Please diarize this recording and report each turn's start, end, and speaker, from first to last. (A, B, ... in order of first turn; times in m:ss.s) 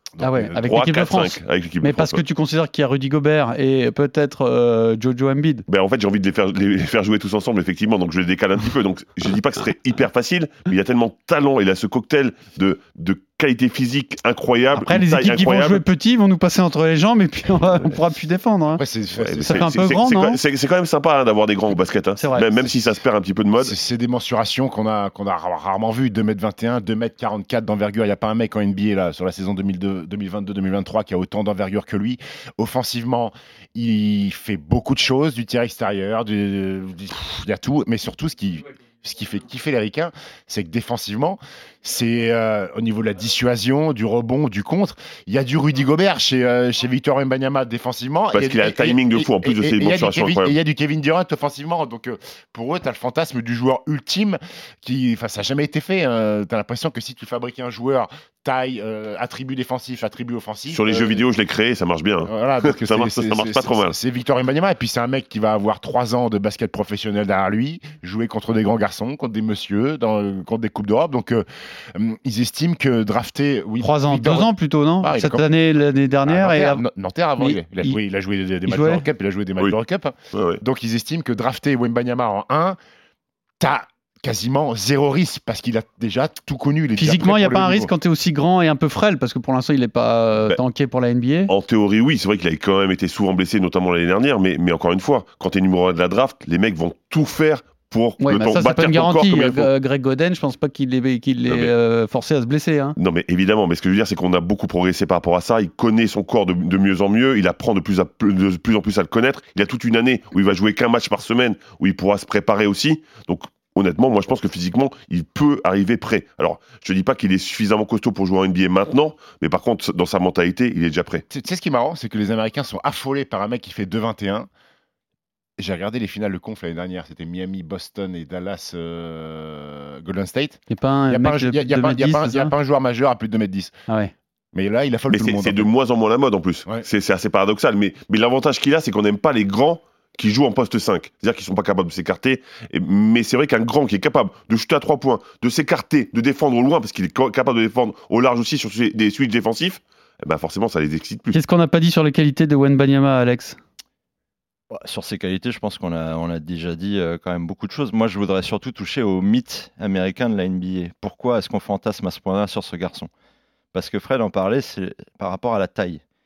0:00.2-0:00.5 A
0:00.2-0:05.6 B
0:00.5-0:02.2 C
0:05.7-0:15.8 C
0:14.7-0:18.8 B
0:18.8-0:19.7 A
0:19.2-0:23.7 C
0:19.4-0:20.4 B
0:22.2-0:22.5 B
0:23.6-1:01.2 A
0:48.3-0:50.5 C
1:00.7-1:04.0 C
1:02.2-1:14.5 A
1:13.8-1:16.8 B
1:15.0-1:15.5 A
1:16.3-1:22.8 A
1:17.4-1:18.0 B
1:18.7-1:19.0 B
1:20.3-1:20.6 C
1:23.6-1:27.9 A
1:27.0-1:31.5 B
1:31.5-1:39.7 C
1:38.2-1:43.0 B
1:43.0-2:01.2 C
2:01.3-2:04.5 A
2:05.6-2:13.7 A
2:10.7-2:12.5 B
2:14.5-2:15.7 A
2:15.1-2:31.4 C
2:31.3-2:33.6 B
2:34.7-2:43.1 D
2:43.7-2:46.0 D